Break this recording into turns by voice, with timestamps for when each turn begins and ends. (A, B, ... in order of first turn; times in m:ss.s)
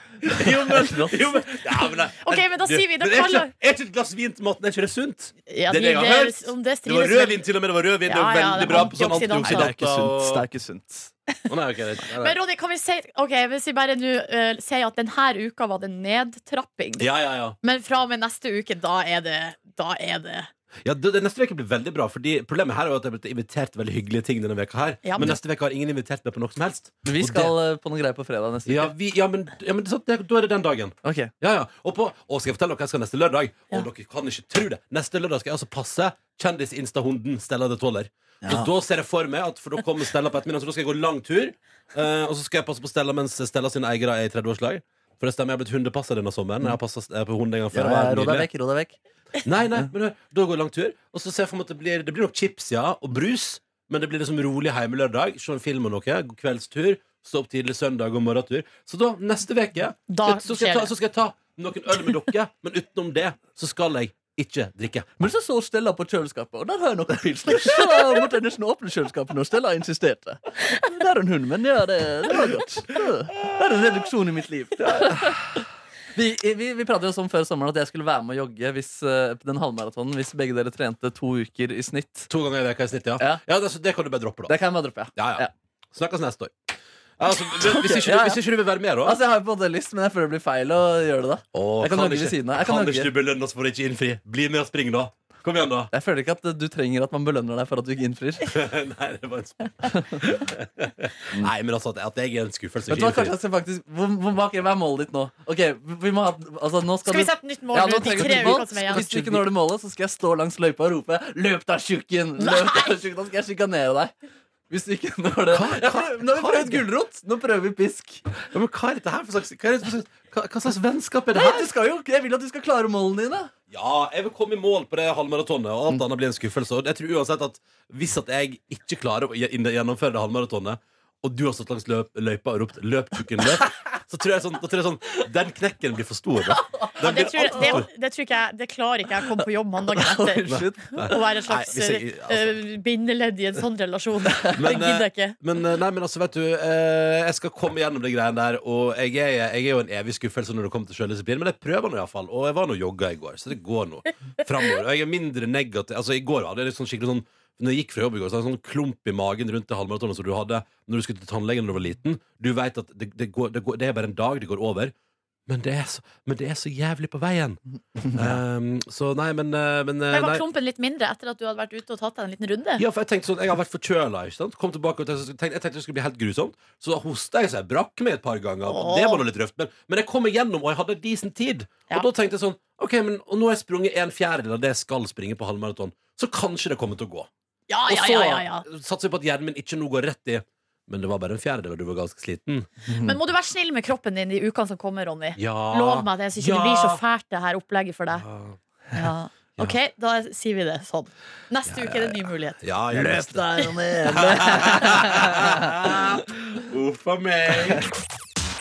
0:00.3-0:10.5 A
0:00.3-0:01.2 B
0:02.2-0:03.5 C
0:05.5-0:07.4 C
0:08.0-0:09.7 C
0:08.8-0:11.1 B
0:11.5-0:12.4 A
0:12.2-0:17.1 C
0:17.0-0:17.6 A
0:17.6-0:20.5 C
0:20.8-0:27.5 A
0:25.0-0:25.4 C
0:27.0-0:28.9 B
0:28.7-0:48.5 A
0:31.0-0:31.3 B
0:38.4-0:38.7 B
0:47.7-0:49.0 B
0:49.4-1:05.1 A
1:00.1-1:00.9 C
1:05.2-1:15.4 B
1:14.8-1:15.4 A
1:16.2-1:22.3 B
1:22.3-1:24.5 A
1:24.5-1:25.5 B
1:25.2-1:26.6 A
1:27.2-1:29.2 A
1:27.6-1:28.4 B
1:29.0-1:33.1 B
1:31.5-1:35.9 A
1:35.9-1:38.5 B
1:38.4-1:43.4 A
1:39.9-1:40.2 B
1:42.9-1:54.1 B
1:47.1-1:49.0 C
1:48.1-1:49.4 A
1:52.4-1:53.0 C
1:54.7-1:58.2 B
1:55.5-1:56.9 A
1:58.5-2:01.7 A
2:01.3-2:03.5 B
2:03.7-2:17.9 A
2:16.6-2:17.8 B
2:17.0-2:25.4 C
2:20.1-2:21.1 B
2:20.5-2:22.6 A
2:24.5-2:44.9 A
2:45.5-2:47.6 A
2:48.1-2:48.4 B
2:48.1-2:50.4 A
2:50.1-2:52.8 C
2:52.8-3:07.3 A
2:58.7-2:59.2 C
3:07.7-3:08.6 C
3:07.9-3:12.7 A
3:12.9-3:13.2 B
3:13.0-3:18.3 C
3:15.4-3:17.0 A
3:18.2-3:18.6 A
3:18.9-3:22.6 C
3:21.7-3:27.9 A
3:22.9-3:25.8 B